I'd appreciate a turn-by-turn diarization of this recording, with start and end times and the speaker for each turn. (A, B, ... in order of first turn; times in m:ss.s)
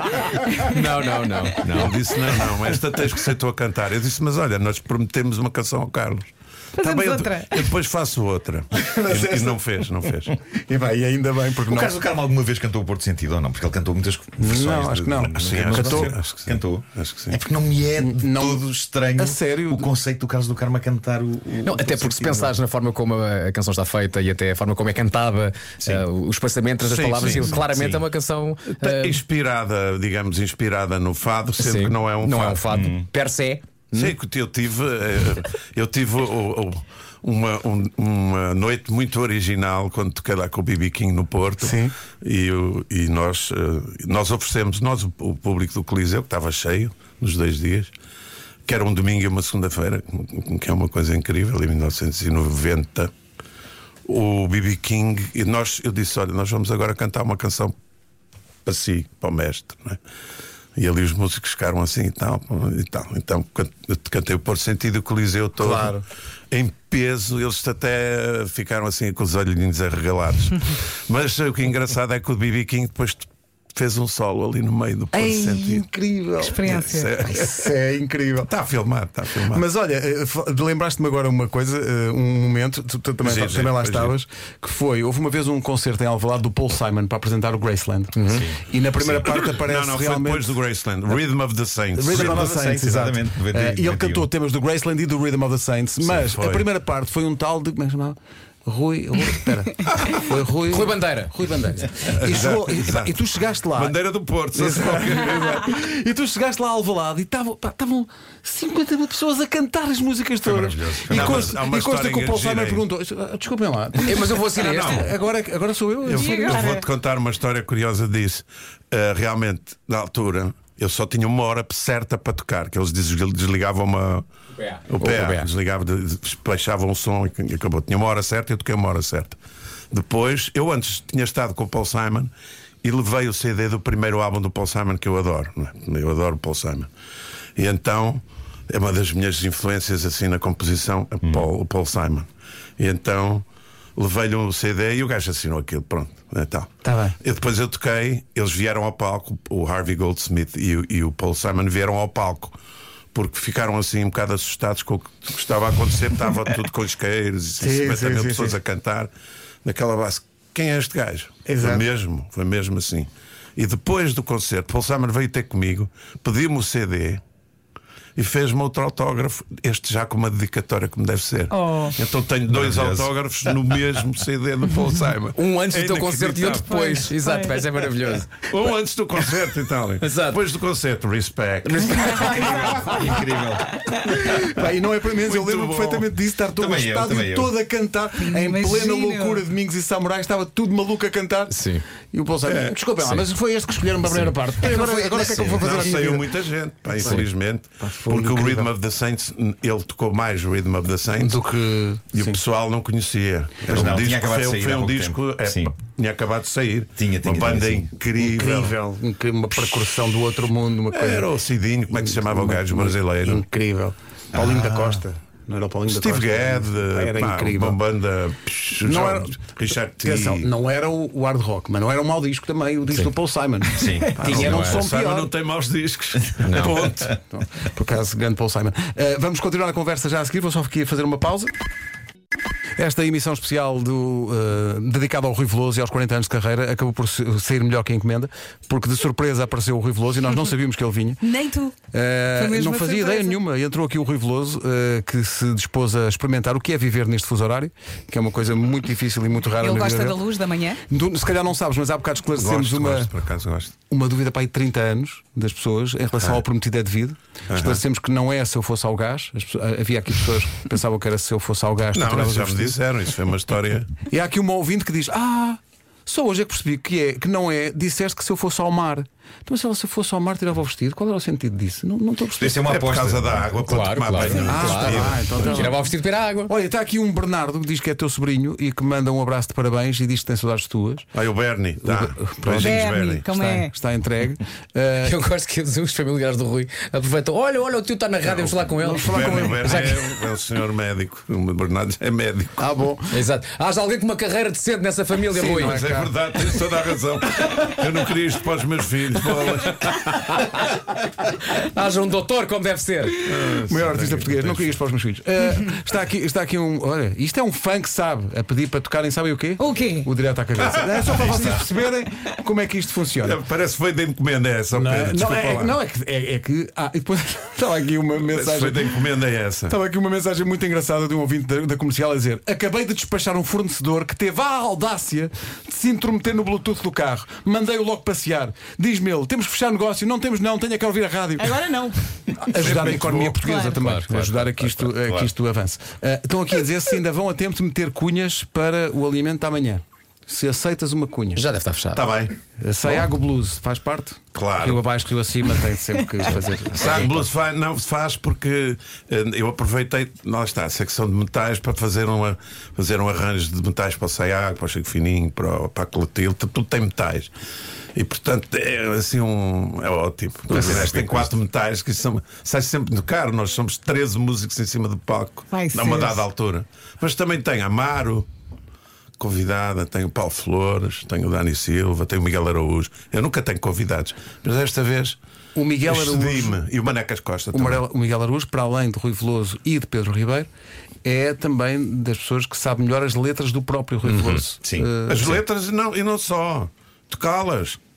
0:00.6-0:02.0 A
0:01.6-0:10.3 B
0:06.8-0:07.4 C
0:08.8-0:09.8 D
0:10.5-0:12.0 D
0:11.6-0:22.6 E
0:14.4-0:16.1 D
0:15.3-0:17.4 B
0:18.0-0:19.9 D
0:21.6-0:29.2 A
0:25.8-0:26.0 E
0:26.8-0:28.0 B
0:28.7-0:32.7 B
0:31.6-0:34.2 A
0:32.7-0:33.1 E
0:33.9-0:47.9 B
0:41.6-0:41.9 D
0:48.6-0:53.1 B
0:54.0-0:57.7 B
0:58.6-1:00.0 B
1:00.8-1:06.0 B
1:05.6-1:06.0 D
1:06.5-1:15.8 B
1:15.1-1:18.5 D
1:16.5-1:17.7 B
1:18.4-1:19.6 B
1:19.5-1:30.6 D
1:23.2-1:24.1 B
1:28.2-1:28.4 A
1:28.3-1:28.6 E
1:29.0-1:32.5 B
1:31.9-1:44.0 D
1:32.1-1:34.3 E
1:36.0-1:36.6 B
1:39.9-1:40.2 B
1:40.7-1:41.3 A
1:42.0-1:43.1 B
1:43.7-1:45.7 B
1:44.5-1:56.8 D
1:50.4-1:51.6 E
1:51.0-1:52.8 B
1:54.0-1:55.0 A
1:54.4-1:55.1 B
1:56.0-2:04.2 B
1:56.2-1:56.6 C
2:04.6-2:05.5 A
2:04.9-2:09.4 B
2:09.9-2:12.3 B
2:12.8-2:16.9 B
2:17.6-2:23.4 B
2:24.0-2:32.5 B
2:26.8-2:27.2 D
2:33.1-2:39.1 B
2:37.6-2:38.6 D
2:39.6-2:47.2 B
2:41.4-2:41.9 D
2:48.2-2:57.1 B
2:52.5-2:53.8 E
2:55.3-2:58.4 A
2:57.3-2:57.6 C
2:58.5-3:02.8 B
3:00.0-3:00.4 A
3:01.6-3:02.5 A
3:02.1-3:03.8 E
3:02.5-3:03.0 D
3:04.0-3:11.6 D
3:05.1-3:06.1 B
3:06.5-3:07.6 E
3:08.3-3:09.4 C
3:11.5-3:11.8 A
3:12.1-3:16.3 D
3:12.4-3:12.8 B
3:13.0-3:13.2 A
3:14.0-3:15.4 A
3:14.6-3:21.5 B
3:16.9-3:17.2 D
3:17.0-3:17.3 A
3:17.8-3:18.7 D
3:21.2-3:22.4 D
3:22.1-3:28.7 B
3:23.7-3:25.7 E
3:27.0-3:27.9 E
3:28.2-3:31.3 D
3:30.9-3:33.4 B
3:31.9-3:37.8 D
3:34.3-3:35.0 E
3:35.9-3:40.5 B
3:38.8-3:39.4 D
3:40.0-3:45.3 D
3:43.7-3:44.2 E
3:44.1-3:47.1 B
3:44.3-3:44.8 A
3:46.4-3:46.8 A
3:46.6-3:51.5 D
3:52.8-4:01.3 D
4:01.2-4:01.8 C
4:01.9-4:10.2 D
4:02.4-4:03.3 C
4:09.6-4:10.8 C
4:10.9-4:13.1 D
4:12.4-4:13.7 B
4:13.9-4:22.8 D
4:17.5-4:17.8 B
4:21.9-4:23.9 B
4:24.0-4:32.6 D
4:32.4-4:33.6 E
4:32.7-4:35.7 B
4:33.6-4:36.5 A
4:34.3-4:35.8 D
4:36.5-4:41.1 D
4:41.1-4:43.3 B
4:41.8-4:45.2 D
4:42.7-4:43.7 C
4:45.0-4:50.1 A
4:48.2-4:52.7 B
4:48.7-4:49.8 D
4:52.6-4:53.2 D
4:53.1-4:55.8 A
4:55.3-4:56.2 D
4:55.3-5:00.4 B
5:00.3-5:00.7 A
5:01.3-5:03.2 A
5:03.2-5:04.7 B
5:03.5-5:13.4 D
5:09.8-5:10.0 C
5:10.7-5:11.6 B
5:13.2-5:15.8 B
5:14.7-5:19.0 D
5:18.2-5:19.8 B
5:19.7-5:31.8 D
5:32.3-5:41.4 D
5:32.5-5:33.4 B
5:33.4-5:34.9 A
5:35.0-5:35.3 E
5:41.3-5:42.0 A
5:41.9-5:43.0 B
5:42.6-5:47.2 D
5:44.3-5:44.8 B
5:46.7-5:57.3 B
5:57.9-6:08.3 B
6:00.5-6:01.3 E
6:05.5-6:06.0 A
6:09.2-6:15.2 B
6:15.5-6:16.6 D
6:15.8-6:17.8 B
6:17.5-6:20.5 D
6:21.0-6:25.4 D
6:24.1-6:24.4 B
6:24.6-6:25.4 E
6:25.1-6:27.8 B